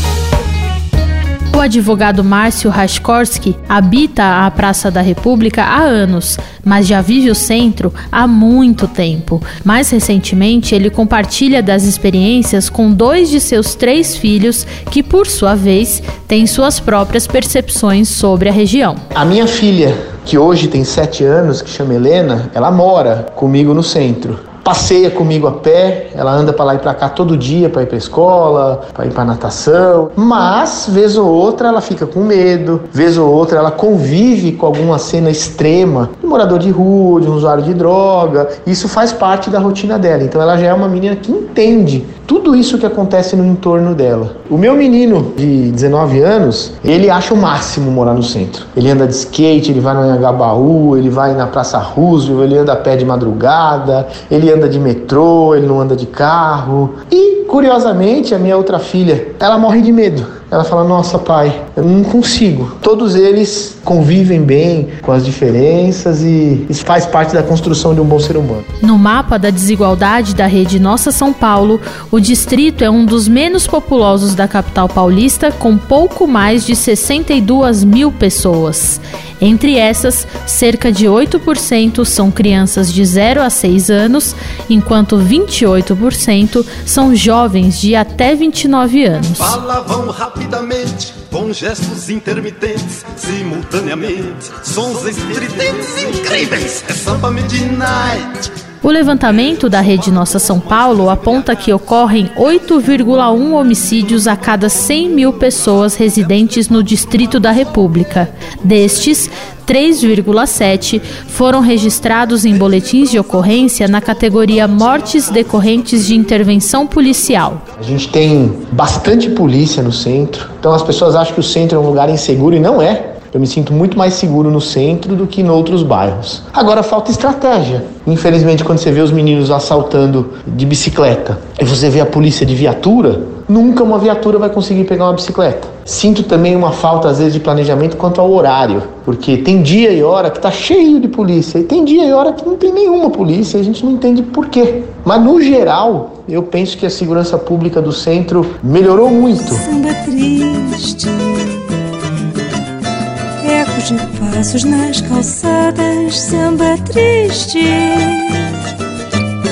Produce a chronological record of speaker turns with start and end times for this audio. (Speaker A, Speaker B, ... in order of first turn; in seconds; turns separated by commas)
Speaker A: 1.5-19.0, Speaker B: 19.1-68.6, Speaker A: 68.8-89.5, Speaker C: 89.4-98.5, Speaker A: 98.8-117.6, Speaker B: 117.8-149.7, Speaker D: 149.5-151.7, Speaker D: 153.4-158.6